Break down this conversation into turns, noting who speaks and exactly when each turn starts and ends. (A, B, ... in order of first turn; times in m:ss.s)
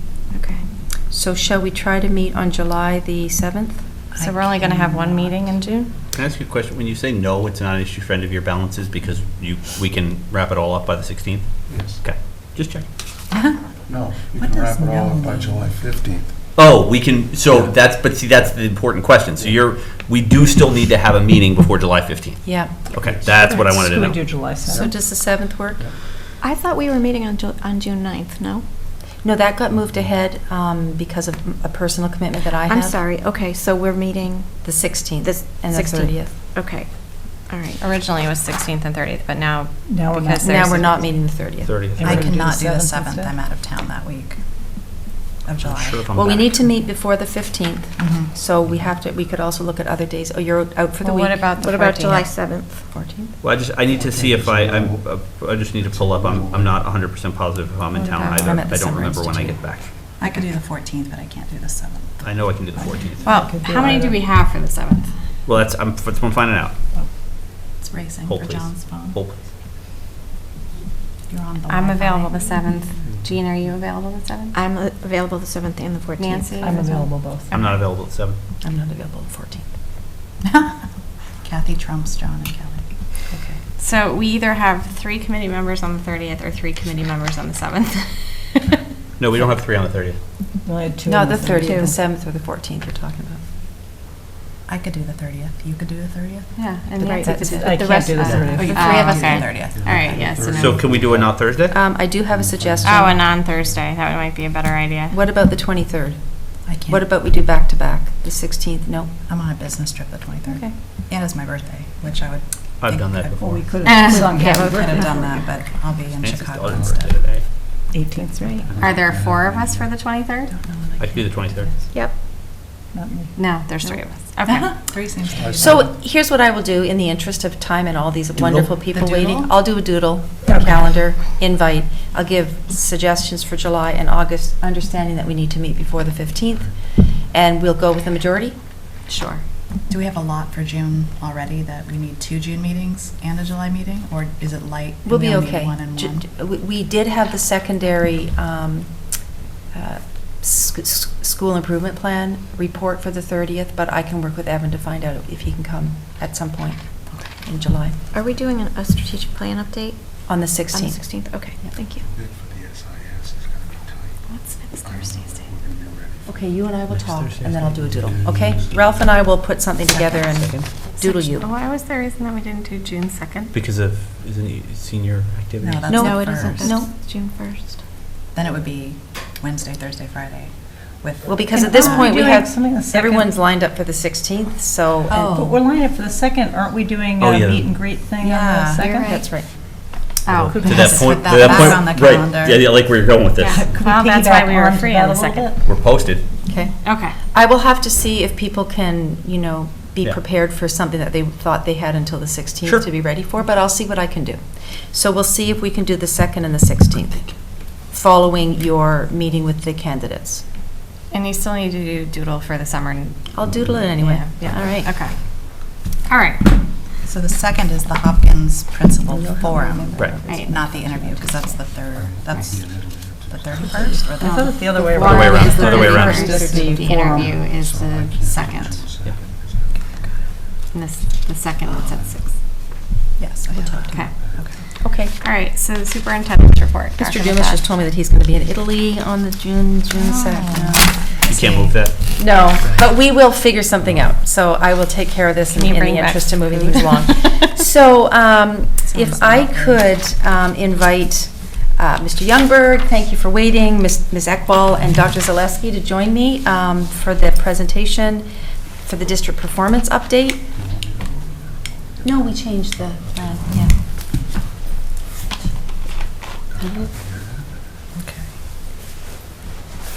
0:01.1-0:03.8 A
0:04.1-0:05.4 B
0:04.2-0:05.9 C
0:06.1-0:11.5 D
0:11.7-0:12.0 E
0:12.0-0:12.8 D
0:13.3-0:13.6 B
0:13.9-0:16.4 E
0:14.3-0:15.8 B
0:16.5-0:24.2 D
0:17.5-0:17.7 E
0:22.4-0:22.9 A
0:22.9-0:23.4 E
0:23.4-0:24.7 F
0:23.5-0:24.8 G
0:24.6-0:25.8 A
0:26.4-0:28.6 F
0:29.2-0:33.0 A
0:32.7-0:37.8 F
0:34.6-0:36.3 A
0:37.8-0:41.0 C
0:39.9-0:40.4 G
0:40.4-0:41.8 A
0:41.6-0:42.1 D
0:42.0-0:43.3 G
0:42.0-0:43.1 F
0:42.0-0:44.4 B
0:45.4-0:46.1 B
0:45.6-0:46.7 D
0:46.1-0:53.3 A
0:48.0-0:48.3 B
0:51.0-0:51.7 C
0:51.6-0:52.8 F
0:53.4-0:59.9 D
0:53.9-0:55.1 E
0:55.7-0:56.9 E
0:57.9-0:58.6 C
0:58.4-0:59.6 A
1:00.2-1:02.2 B
1:02.2-1:03.3 D
1:03.2-1:05.1 C
1:03.2-1:04.2 G
1:03.4-1:04.0 F
1:05.4-1:06.7 D
1:07.8-1:09.2 B
1:08.2-1:09.3 D
1:11.3-1:12.5 B
1:11.7-1:14.5 C
1:14.5-1:17.4 F
1:16.2-1:17.8 C
1:16.6-1:17.5 G
1:17.5-1:18.4 D
1:18.6-1:19.6 A
1:20.4-1:20.8 B
1:21.4-1:22.8 B
1:23.8-1:28.8 C
1:29.2-1:30.2 D
1:30.6-1:31.6 G
1:31.1-1:33.4 A
1:31.1-1:31.9 F
1:34.7-1:36.5 B
1:36.6-1:40.9 C
1:37.0-1:39.6 F
1:37.0-1:37.8 A
1:37.5-1:38.7 G
1:38.3-1:39.0 A
1:38.7-1:40.1 B
1:39.7-1:41.5 E
1:40.5-1:41.8 D
1:41.7-1:43.2 A
1:42.3-1:43.8 E
1:42.8-1:45.1 C
1:45.1-1:49.1 A
1:46.6-1:47.0 B
1:49.3-1:53.5 B
1:50.5-1:50.7 A
1:52.8-1:53.5 D
1:53.4-1:54.5 G
1:53.4-1:55.5 F
1:54.1-1:57.2 B
1:56.2-1:57.4 D
1:56.7-1:57.0 E
1:57.9-1:58.6 F
1:58.0-1:58.7 G
1:58.7-1:59.0 D
1:58.8-1:59.9 E
1:58.8-2:00.5 C
2:00.5-2:01.3 A
2:01.0-2:01.8 D
2:02.9-2:03.3 G
2:03.4-2:04.8 C
2:04.4-2:05.8 B
2:05.3-2:05.9 E
2:05.6-2:18.6 A
2:08.4-2:08.7 D
2:08.8-2:09.5 B
2:19.1-2:19.4 A
2:19.9-2:26.2 B
2:25.0-2:29.0 A
2:29.7-2:36.8 A
2:37.4-2:38.0 A
2:38.1-2:42.0 F
2:40.3-2:41.1 A
2:42.1-2:44.2 E
2:44.3-2:44.7 F
2:44.8-2:45.5 C
2:44.8-2:46.4 E
2:46.2-2:51.5 A
2:46.9-2:47.6 D
2:47.7-2:49.0 E
2:50.3-2:50.7 D
2:51.0-2:51.3 F
2:51.4-2:53.5 C
2:53.5-2:56.0 D
2:55.6-2:56.7 B
2:55.9-2:56.9 A
2:56.0-2:57.8 F
2:58.3-3:02.0 B
3:01.2-3:05.5 A
3:01.5-3:03.2 G
3:01.8-3:03.0 F
3:05.1-3:05.4 B
3:05.4-3:09.1 G
3:05.6-3:09.3 F
3:07.2-3:07.7 D
3:08.2-3:08.9 B
3:09.0-3:09.4 A
3:10.2-3:11.8 C
3:10.3-3:13.6 D
3:10.5-3:10.9 G
3:10.6-3:10.9 F
3:10.7-3:12.6 B
3:13.4-3:15.5 C
3:13.6-3:15.5 G
3:13.6-3:15.5 F
3:15.6-3:16.2 D
3:16.5-3:30.4 A
3:16.8-3:17.2 C
3:31.1-3:33.3 C
3:33.3-3:34.9 A
3:33.9-3:36.6 C
3:37.0-3:44.5 B
3:39.1-3:40.8 G
3:40.0-3:40.2 F
3:42.0-3:43.8 E
3:44.2-3:47.4 F
3:44.2-3:47.3 G
3:45.0-3:48.8 C
3:45.1-3:46.3 D
3:47.2-3:49.9 E
3:48.2-3:48.8 B
3:50.7-3:52.3 C
3:51.8-3:52.1 E
3:53.2-3:54.5 B
3:54.8-3:55.1 A
3:55.2-3:57.6 C
3:57.0-4:01.1 A
4:00.0-4:01.7 B
4:01.2-4:02.8 D
4:02.2-4:18.3 A
4:05.5-4:07.5 C
4:08.9-4:09.8 B
4:18.8-4:20.4 A
4:20.6-4:23.4 E
4:22.0-4:23.7 A
4:26.5-4:27.5 E
4:26.6-4:26.9 A
4:28.0-4:28.2 B